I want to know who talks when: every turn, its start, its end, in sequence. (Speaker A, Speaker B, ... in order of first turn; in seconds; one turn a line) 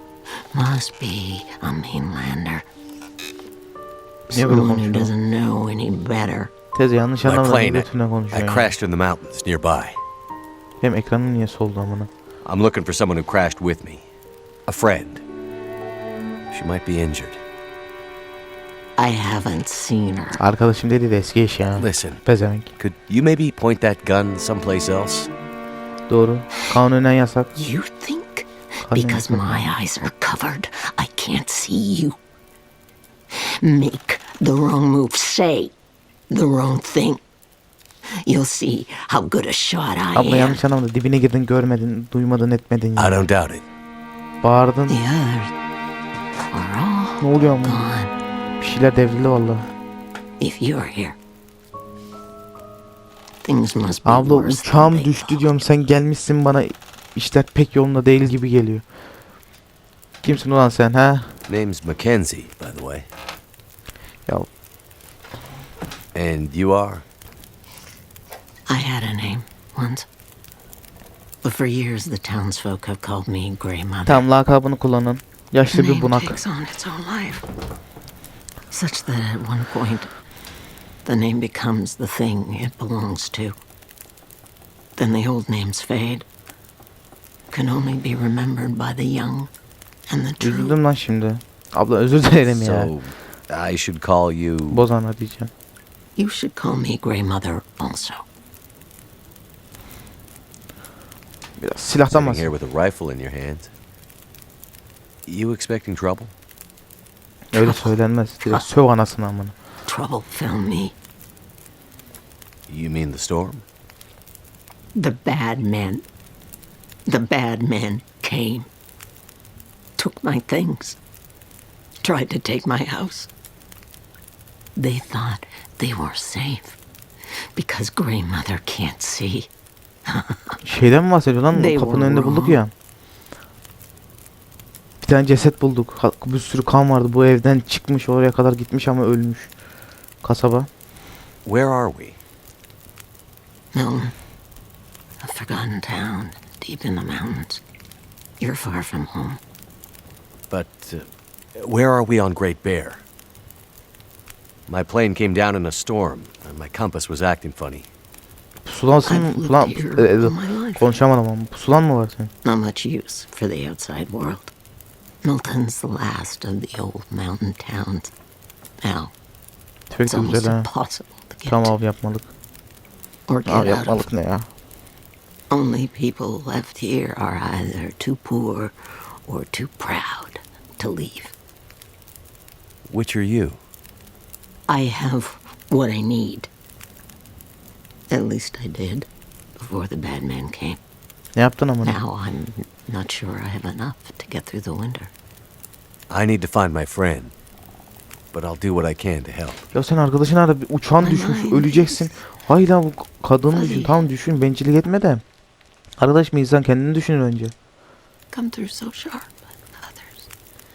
Speaker A: 0.5-2.7
Speaker B: 4.3-5.1
Speaker A: 4.3-6.5
Speaker B: 6.7-8.7
Speaker C: 7.2-10.0
Speaker B: 10.8-12.1
Speaker C: 12.4-14.1
Speaker C: 14.7-15.2
Speaker C: 16.5-17.4
Speaker A: 19.0-20.4
Speaker B: 20.4-22.7
Speaker C: 21.8-22.2
Speaker C: 22.8-25.3
Speaker B: 26.1-27.6
Speaker A: 27.6-32.2
Speaker B: 28.9-29.7
Speaker A: 33.3-35.7
Speaker A: 36.3-37.2
Speaker A: 38.2-40.6
Speaker B: 40.1-43.3
Speaker C: 43.0-43.6
Speaker B: 44.4-45.0
Speaker A: 44.9-45.5
Speaker A: 46.5-48.1
Speaker B: 47.2-47.9
Speaker B: 48.6-49.7
Speaker A: 50.4-51.2
Speaker A: 53.4-55.4
Speaker B: 54.0-58.8
Speaker B: 60.2-61.4
Speaker C: 61.5-63.1
Speaker C: 66.1-67.0
Speaker A: 68.7-70.1
Speaker A: 71.4-74.3
Speaker B: 74.1-76.4
Speaker A: 75.7-77.5
Speaker A: 78.7-80.1
Speaker A: 81.0-83.6
Speaker A: 85.0-86.3
Speaker A: 87.5-89.5
Speaker A: 90.1-90.8
Speaker B: 90.4-92.9
Speaker C: 92.5-94.8
Speaker B: 94.7-95.5
Speaker A: 96.2-98.2
Speaker B: 101.6-102.5
Speaker C: 102.1-103.7
Speaker C: 105.3-106.3
Speaker B: 107.5-109.5
Speaker A: 107.5-108.0
Speaker A: 109.9-110.9
Speaker C: 112.7-113.6
Speaker A: 115.0-116.0
Speaker A: 117.1-118.7
Speaker A: 120.0-121.0
Speaker A: 122.0-123.3
Speaker A: 124.8-126.8
Speaker A: 127.5-129.5
Speaker A: 130.1-130.6
Speaker B: 130.6-132.7
Speaker A: 131.5-132.6
Speaker B: 135.0-139.5
Speaker B: 140.2-140.7
Speaker C: 141.4-142.2
Speaker A: 143.7-144.1
Speaker A: 145.2-147.6
Speaker A: 148.4-149.4
Speaker C: 150.5-153.0
Speaker C: 154.7-157.9
Speaker B: 158.7-162.3
Speaker A: 159.1-160.9
Speaker A: 162.4-164.5
Speaker A: 165.2-168.1
Speaker A: 168.8-169.1
Speaker B: 169.9-170.7
Speaker A: 170.1-171.7
Speaker B: 171.5-172.3
Speaker A: 173.3-174.1
Speaker B: 173.5-174.5
Speaker A: 175.5-181.3
Speaker C: 182.9-183.6
Speaker A: 184.7-186.5
Speaker A: 188.1-190.8
Speaker B: 191.4-192.0
Speaker A: 191.8-195.1
Speaker C: 196.1-197.3
Speaker C: 198.3-199.6
Speaker B: 199.7-205.2
Speaker A: 201.0-202.0
Speaker A: 203.5-204.0
Speaker B: 206.0-207.5
Speaker A: 208.3-210.3